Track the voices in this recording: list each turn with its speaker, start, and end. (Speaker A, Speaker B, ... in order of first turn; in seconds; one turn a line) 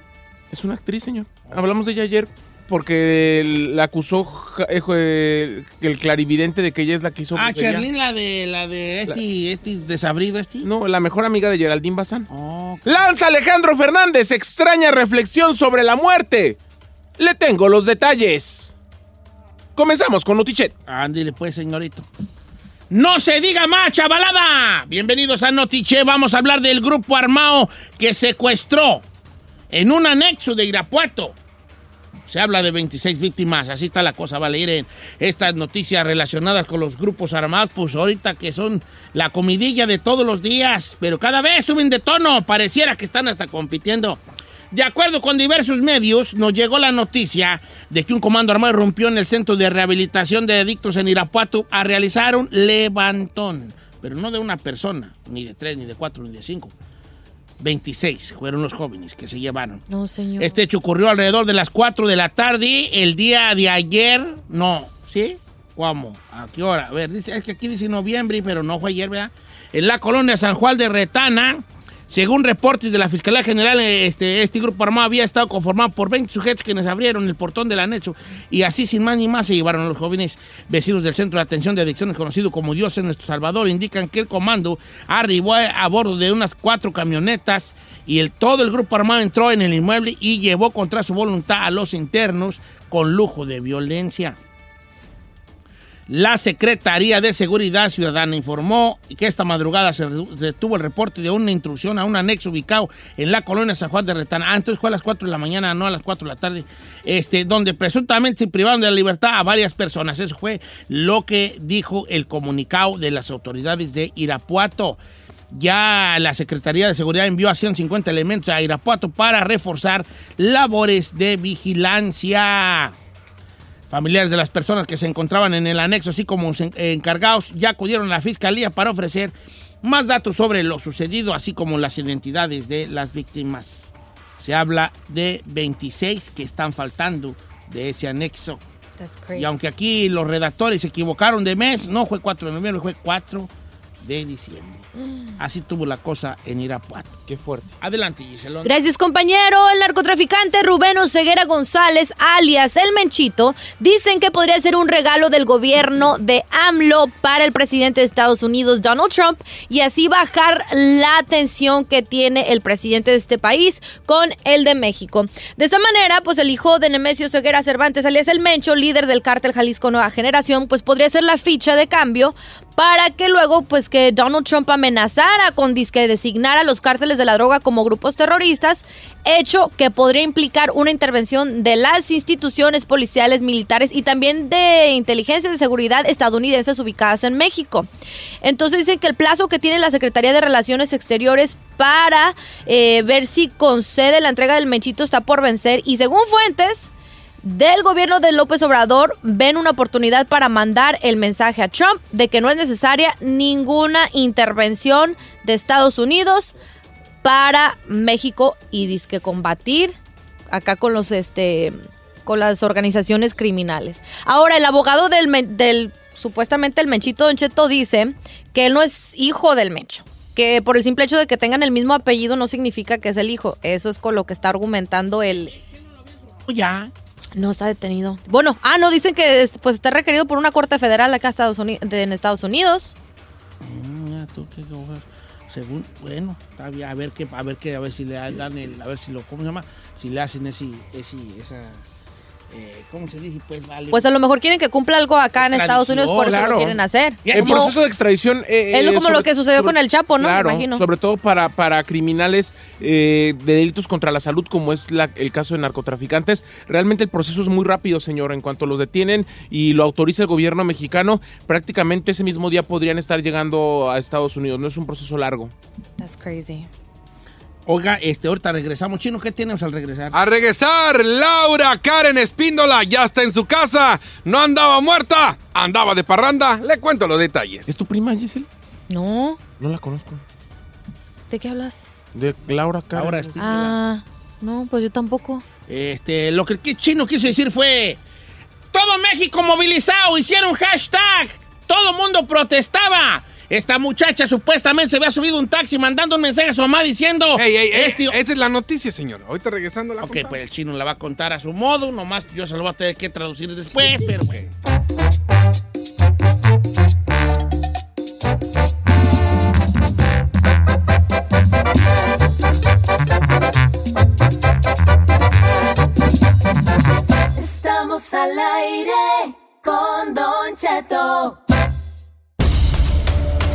Speaker A: 0.5-7.9
Speaker B: 7.3-10.7
Speaker A: 10.6-12.3
Speaker B: 12.3-13.0
Speaker A: 12.8-16.6
Speaker A: 17.2-18.7
Speaker A: 19.8-20.7
Speaker B: 20.9-22.1
Speaker B: 22.9-29.0
Speaker B: 29.7-31.4
Speaker B: 32.3-44.2
Speaker B: 44.7-56.7
Speaker B: 57.6-59.8
Speaker C: 59.9-60.6
Speaker B: 60.4-94.3
Speaker B: 96.1-115.0
Speaker B: 115.5-122.9
Speaker B: 123.9-138.6
Speaker C: 139.0-139.5
Speaker B: 139.3-143.5
Speaker B: 144.0-144.9
Speaker C: 144.9-145.4
Speaker B: 145.4-147.2
Speaker A: 147.3-147.8
Speaker B: 147.8-148.8
Speaker C: 148.6-187.9
Speaker C: 188.4-196.9
Speaker C: 197.4-206.5
Speaker C: 207.2-209.9
Speaker C: 210.5-225.5
Speaker B: 226.4-226.9
Speaker C: 227.3-232.9
Speaker B: 233.6-241.8
Speaker B: 242.5-244.1
Speaker C: 243.9-247.7
Speaker B: 245.3-247.7
Speaker A: 246.3-246.6
Speaker A: 247.3-265.5
Speaker C: 248.7-250.9
Speaker C: 266.0-266.7
Speaker B: 267.6-270.1
Speaker D: 270.1-277.7
Speaker A: 277.7-278.5
Speaker C: 278.9-279.4
Speaker A: 279.6-280.2
Speaker C: 281.3-281.9
Speaker A: 282.1-283.4
Speaker B: 282.9-283.8
Speaker C: 283.4-285.5
Speaker B: 285.6-288.0
Speaker B: 288.7-298.2
Speaker D: 297.4-300.4
Speaker B: 300.0-304.4
Speaker E: 317.3-321.4